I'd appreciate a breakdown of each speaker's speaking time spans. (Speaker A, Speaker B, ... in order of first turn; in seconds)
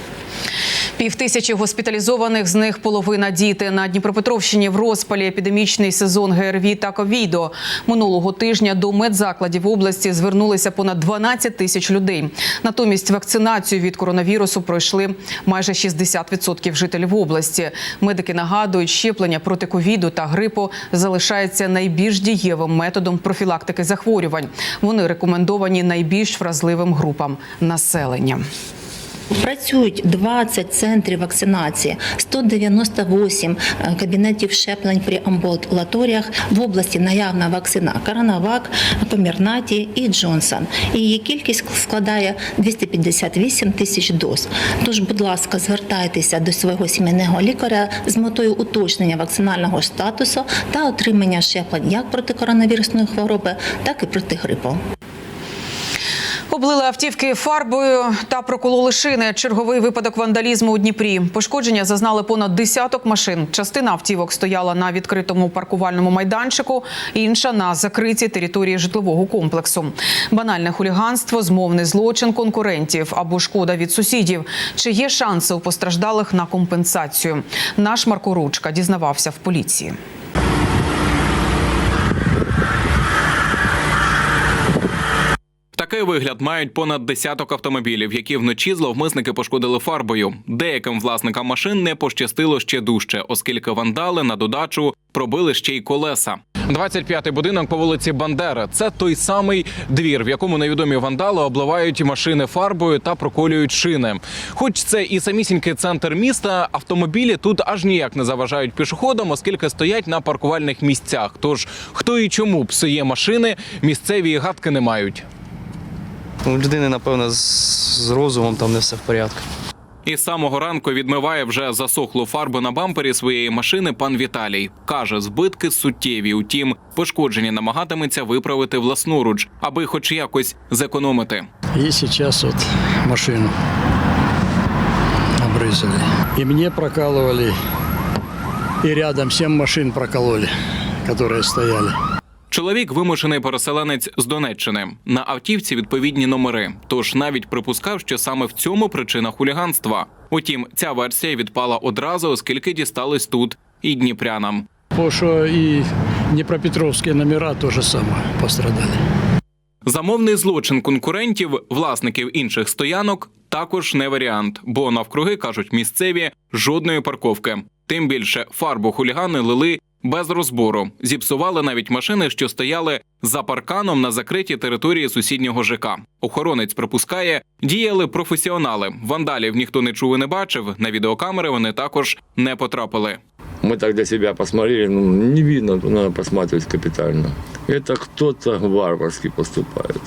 Speaker A: 1.0-28.4, 56.5-80.0
Speaker B: 29.4-54.8
Speaker C: 85.8-115.3, 120.1-131.5, 142.5-154.7, 159.9-183.2
Speaker D: 116.5-119.4
Speaker E: 131.8-133.5, 135.4-137.6, 138.8-140.5, 141.0-141.9, 154.9-159.0
Speaker F: 183.7-184.9, 185.5-189.8